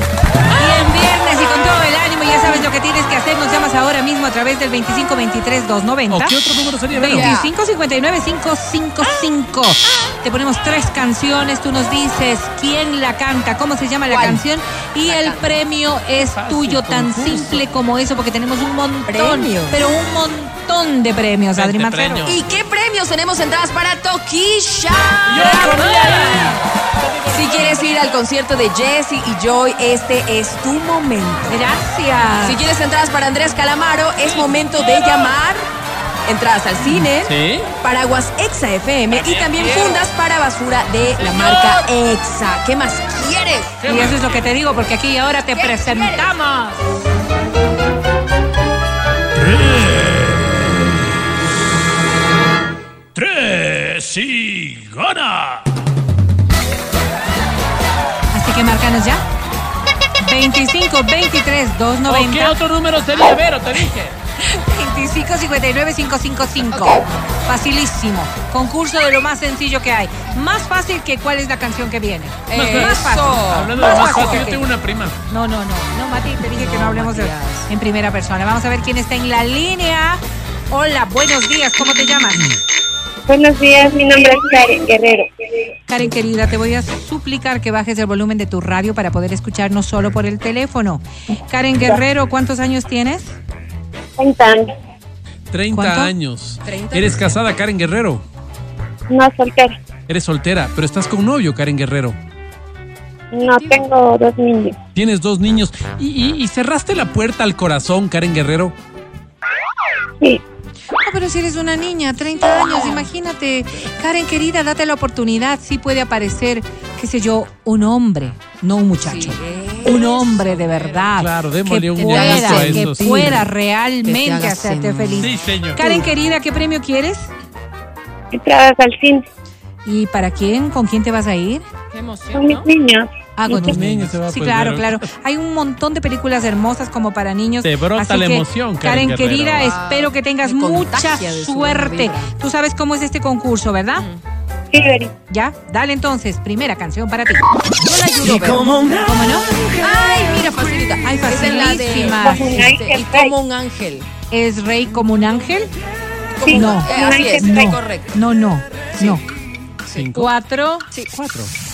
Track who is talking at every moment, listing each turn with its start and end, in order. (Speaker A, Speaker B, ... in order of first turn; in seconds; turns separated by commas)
Speaker A: 0.5-6.3, Speaker B: 6.1-7.3, Speaker A: 6.9-22.3, Speaker C: 7.1-7.5, Speaker C: 14.1-14.4, Speaker C: 15.1-15.6, Speaker B: 16.2-17.7, Speaker C: 19.1-19.8, Speaker B: 21.6-22.5, Speaker C: 22.2-25.9, Speaker B: 25.3-28.2, Speaker A: 25.4-26.6, Speaker C: 27.3-31.6, Speaker A: 31.5-32.6, Speaker C: 32.4-35.7, Speaker B: 34.2-35.3, Speaker C: 36.2-43.9, Speaker B: 37.2-37.7, Speaker B: 39.1-40.1, Speaker B: 41.2-41.8, Speaker B: 43.8-44.5, Speaker A: 43.9-46.8, Speaker C: 45.5-46.3, Speaker B: 49.4-50.9, Speaker B: 53.1-55.8, Speaker A: 58.3-59.2, Speaker A: 60.2-62.5, Speaker B: 62.0-64.1, Speaker A: 64.4-74.7, Speaker C: 66.7-67.1, Speaker C: 72.5-74.5, Speaker B: 72.5-75.2, Speaker A: 75.3-82.5, Speaker C: 76.5-77.7, Speaker D: 83.3-85.3, Speaker A: 85.9-93.3, Speaker D: 94.2-94.7, Speaker B: 95.5-98.2, Speaker A: 95.7-96.1, Speaker C: 96.6-97.4, Speaker D: 99.1-99.8, Speaker B: 100.1-102.2, Speaker D: 103.3-104.8, Speaker C: 103.5-103.9, Speaker B: 104.9-108.7, Speaker A: 111.0-127.3, Speaker C: 112.5-113.0, Speaker C: 119.0-121.2, Speaker B: 121.2-123.4, Speaker C: 122.0-123.4, Speaker C: 124.0-125.6, Speaker B: 125.2-126.1, Speaker D: 128.3-129.2, Speaker A: 129.8-131.7, Speaker C: 131.9-132.7, Speaker D: 132.3-133.8, Speaker A: 133.3-144.1, Speaker B: 133.6-135.0, Speaker B: 137.6-139.7, Speaker C: 139.5-142.3, Speaker C: 143.9-144.2, Speaker D: 144.7-145.1, Speaker A: 145.3-147.4, Speaker C: 147.8-148.9, Speaker A: 149.0-149.5, Speaker C: 149.7-154.1, Speaker A: 151.0-152.7, Speaker D: 152.1-153.4, Speaker A: 154.3-155.7, Speaker C: 156.4-158.1, Speaker D: 156.4-157.8, Speaker A: 156.5-159.2, Speaker B: 159.9-160.3, Speaker A: 160.1-160.9, Speaker B: 161.0-161.5